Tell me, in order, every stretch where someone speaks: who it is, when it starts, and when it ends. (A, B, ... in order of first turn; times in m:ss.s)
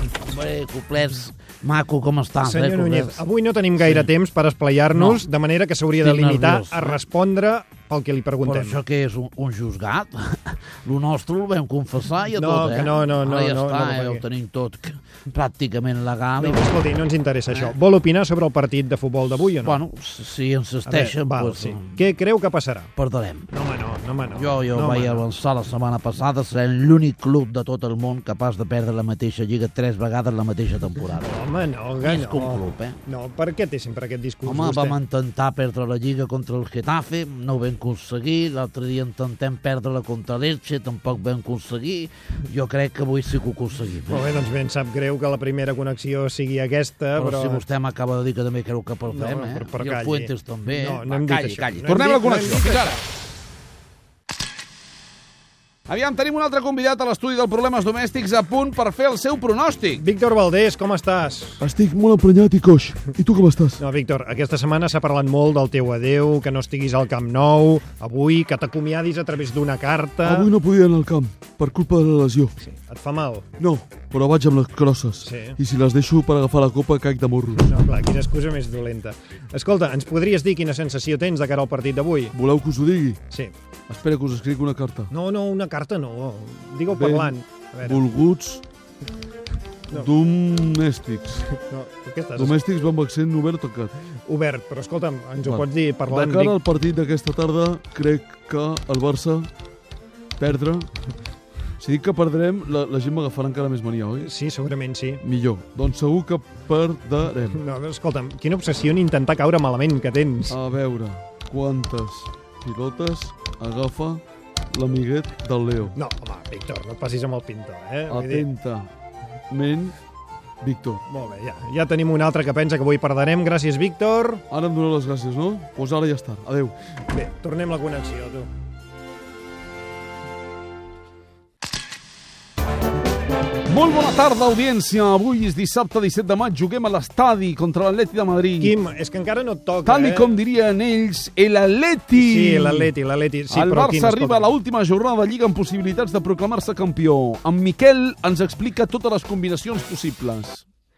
0:00.2-0:03.2 A
0:02.4-0:08.8 B
0:03.8-0:04.1 A
0:04.9-0:05.2 A
0:06.0-0:07.0 A
0:08.4-0:16.7 A
0:12.4-0:14.2 B
0:16.4-0:19.8 B
0:19.6-0:22.0 A
0:20.8-0:22.9 B
0:23.0-0:23.5 A
0:23.5-0:25.3 B
0:24.4-0:31.4 A
0:31.2-0:35.0 B
0:32.0-0:33.0 A
0:34.4-0:44.3 A
0:44.1-0:47.6 B
0:47.2-0:52.0 A
0:49.1-0:53.0 B
0:51.9-0:53.0 C
0:55.9-1:00.0 C
1:00.0-1:01.6 B
1:01.6-1:03.8 D
1:03.8-1:10.5 B
1:10.2-1:12.5 D
1:12.6-1:13.5 B
1:13.6-1:17.7 D
1:15.2-1:15.6 B
1:17.6-1:22.3 B
1:22.3-1:23.2 D
1:23.9-1:25.1 D
1:25.1-1:28.0 B
1:26.9-1:28.6 D
1:29.9-1:31.6 D
1:31.6-1:32.6 B
1:32.4-1:34.0 D
1:34.3-1:36.6 B
1:35.5-1:39.5 D
1:40.4-1:40.9 D
1:41.8-1:44.3 D
1:44.2-1:45.2 B
1:45.2-1:47.6 D
1:47.5-1:50.6 B
1:50.5-1:56.0 D
1:56.0-1:58.5 B
1:58.1-1:58.9 D
1:59.5-2:00.0 D
2:00.6-2:01.0 D
2:01.1-2:04.4 B
2:04.5-2:06.8 D
2:07.1-2:08.5 B
2:13.7-2:18.8 C
2:18.6-2:20.4 B
2:19.8-2:22.9 C
2:22.1-2:24.5 B
2:23.5-2:30.6 C